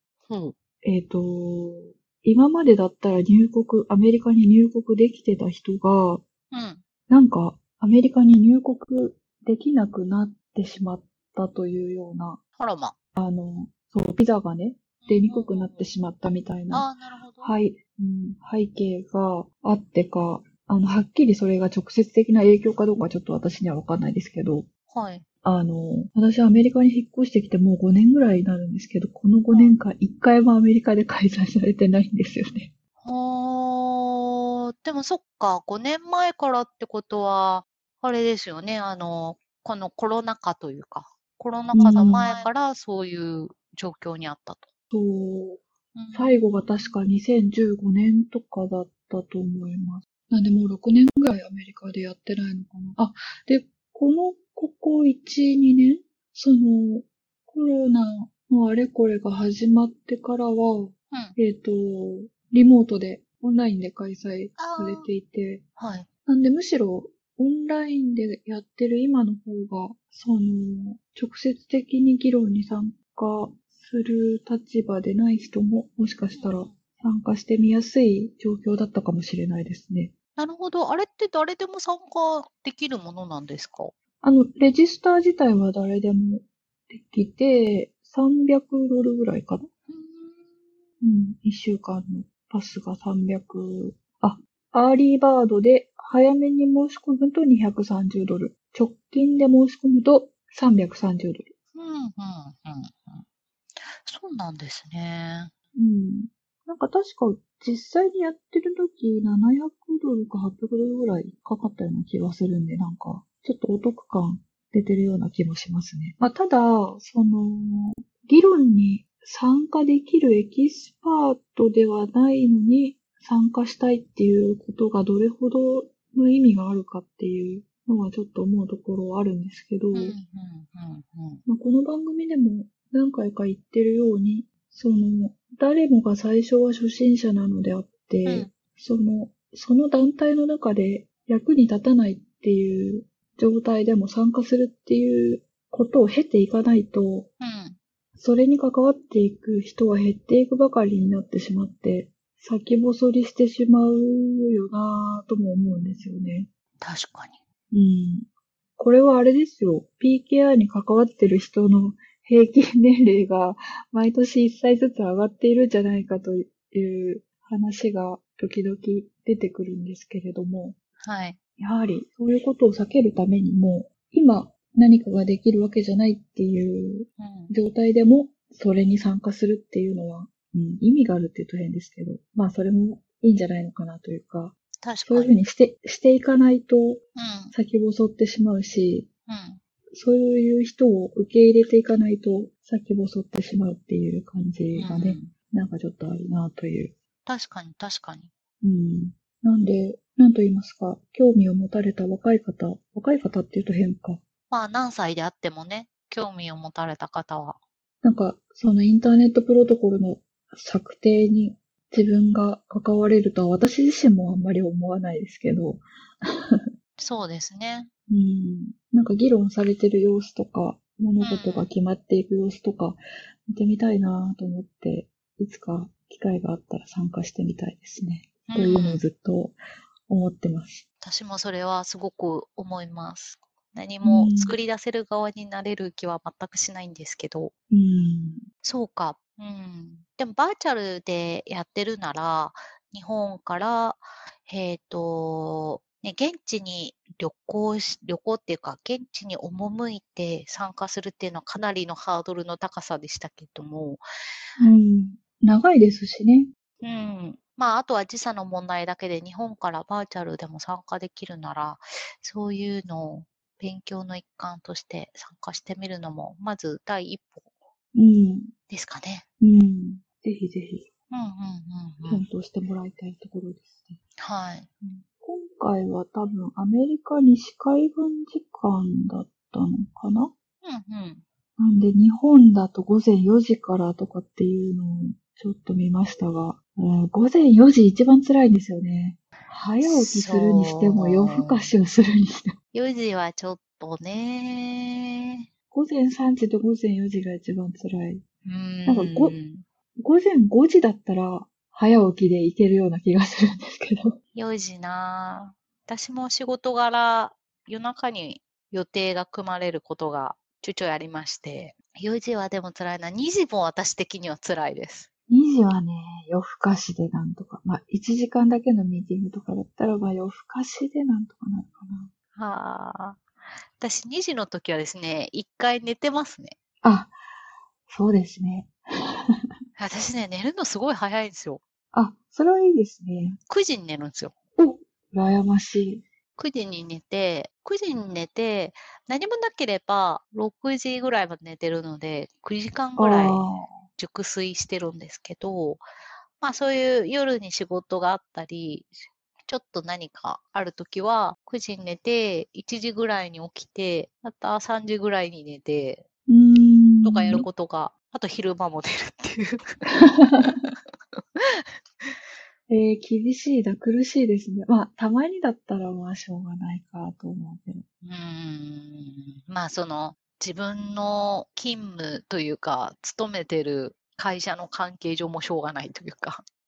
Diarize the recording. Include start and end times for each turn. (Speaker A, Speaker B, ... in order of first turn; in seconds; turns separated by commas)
Speaker A: 0.3-0.5, Speaker B: 0.8-6.2, Speaker A: 6.5-6.8, Speaker B: 7.1-12.4, Speaker A: 12.6-12.9, Speaker B: 13.1-16.9, Speaker A: 15.0-15.9, Speaker A: 16.7-17.6, Speaker B: 17.4-24.7, Speaker A: 24.9-25.2, Speaker B: 25.4-32.7, Speaker A: 29.5-29.8, Speaker A: 33.0-44.7, Speaker B: 41.7-42.4, Speaker B: 44.9-45.6, Speaker A: 45.9-47.0, Speaker B: 46.1-65.6, Speaker A: 61.1-61.4, Speaker A: 64.6-65.1, Speaker A: 65.8-66.1, Speaker B: 66.2-80.1, Speaker A: 76.3-76.8, Speaker A: 80.3-83.9, Speaker B: 84.2-89.7, Speaker A: 89.9-90.6, Speaker B: 91.0-101.5, Speaker A: 101.7-103.2, Speaker A: 104.0-105.5, Speaker B: 105.7-130.1, Speaker A: 129.9-131.4, Speaker B: 131.4-147.3, Speaker A: 138.2-138.5, Speaker A: 147.4-147.8, Speaker B: 148.1-156.5, Speaker A: 156.8-157.4, Speaker B: 157.7-170.8, Speaker A: 171.0-171.4, Speaker B: 171.6-184.5, Speaker A: 177.2-177.5, Speaker A: 184.8-185.3, Speaker B: 185.1-187.0, Speaker A: 187.2-187.5, Speaker B: 187.5-189.1, Speaker A: 189.3-189.6, Speaker B: 189.9-196.9, Speaker A: 194.8-195.3, Speaker A: 197.2-198.3, Speaker B: 198.6-204.2, Speaker A: 204.5-207.6, Speaker B: 208.0-216.6, Speaker A: 217.0-217.9, Speaker B: 218.1-229.6, Speaker A: 221.2-221.7, Speaker A: 228.5-229.0, Speaker B: 230.1-230.8, Speaker A: 231.0-237.5, Speaker B: 234.0-234.5, Speaker B: 237.7-238.4, Speaker A: 238.6-254.0, Speaker B: 254.6-256.5, Speaker A: 256.8-267.5, Speaker B: 267.9-268.5, Speaker A: 268.7-269.2, Speaker B: 269.4-270.9, Speaker A: 271.1-272.2, Speaker B: 272.1-274.0, Speaker A: 274.2-274.7, Speaker B: 274.8-280.3, Speaker A: 280.6-281.2, Speaker B: 281.6-292.6, Speaker A: 289.8-291.7, Speaker A: 292.7-295.1, Speaker B: 295.7-298.2, Speaker A: 298.4-299.6, Speaker B: 298.9-299.3, Speaker B: 300.0-304.2, Speaker A: 304.3-315.1, Speaker B: 315.3-322.1, Speaker A: 322.3-323.2, Speaker A: 323.8-326.6, Speaker B: 326.8-327.1, Speaker B: 327.9-328.7, Speaker A: 329.8-331.6, Speaker B: 331.9-333.4, Speaker A: 333.5-334.3, Speaker B: 334.6-336.0, Speaker A: 336.4-345.8, Speaker B: 343.0-343.7, Speaker A: 346.4-356.0, Speaker B: 356.3-357.4, Speaker A: 357.0-360.7, Speaker B: 359.9-360.6, Speaker B: 362.7-367.8, Speaker A: 368.0-376.4